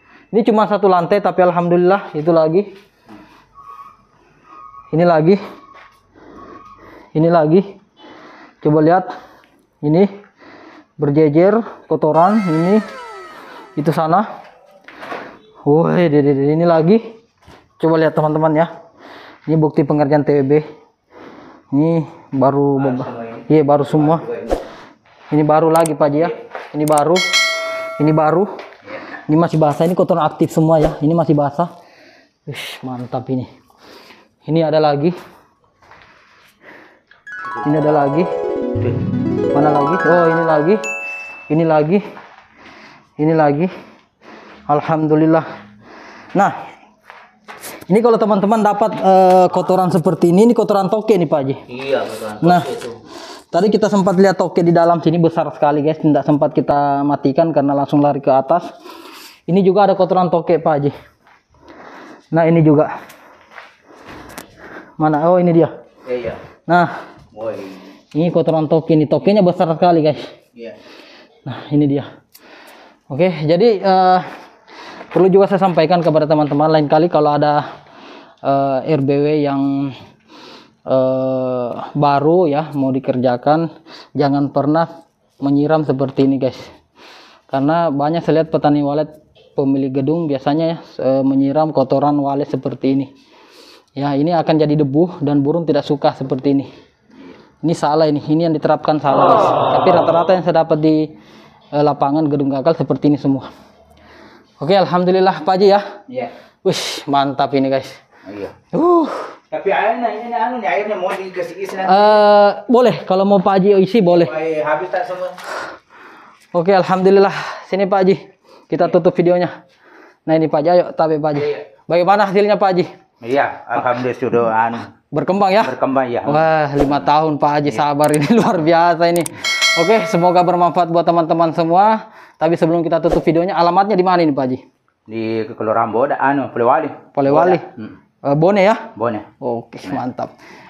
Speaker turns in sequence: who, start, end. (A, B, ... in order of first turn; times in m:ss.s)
0:00.3-0:02.7 A
0:04.9-0:05.4 A
0:07.1-0:07.7 A
0:08.6-0:09.1 A
0:09.8-0:10.1 A
0:11.0-0:12.8 A
0:13.8-0:14.3 A
0:15.6-0:17.0 A
0:17.8-0:18.7 A
0:19.5-0:20.6 A
0:21.7-0:24.2 A
0:22.8-0:24.6 B
0:25.3-0:27.2 A
0:28.0-0:28.5 A
0:29.3-0:31.7 A
0:32.5-0:33.5 A
0:34.4-0:35.1 A
0:37.6-0:38.3 A
0:39.5-0:40.8 A
0:41.5-0:42.0 A
0:43.2-0:43.7 A
0:44.7-0:45.4 A
0:47.9-0:51.6 A
0:51.7-0:53.0 B
0:52.4-0:52.8 A
0:53.5-0:58.7 A
0:59.5-1:00.9 A
1:02.3-1:02.9 A
1:05.0-1:05.7 A
1:06.0-1:06.4 B
1:06.7-1:06.9 A
1:07.3-1:07.8 B
1:08.1-1:10.3 A
1:11.4-1:12.1 A
1:13.1-1:14.3 A
1:15.1-1:17.6 A
1:18.4-1:20.0 A
1:20.8-1:24.9 A
1:25.4-1:26.7 A
1:27.5-1:33.1 A
1:34.0-1:36.7 A
1:37.6-1:41.1 A
1:41.7-1:43.5 A
1:44.6-1:45.8 A
1:46.6-1:48.0 A
1:48.2-1:48.6 B
1:48.7-1:49.3 A
1:49.5-1:52.2 B
1:51.8-1:54.3 A
1:54.0-1:55.4 B
1:56.5-1:59.5 A
2:00.2-2:02.9 A
2:03.2-2:04.9 B
2:05.1-2:14.6 A
2:05.6-2:06.4 B
2:15.1-2:17.9 B
2:17.1-2:17.7 A
2:18.2-2:20.3 A
2:19.0-2:19.3 B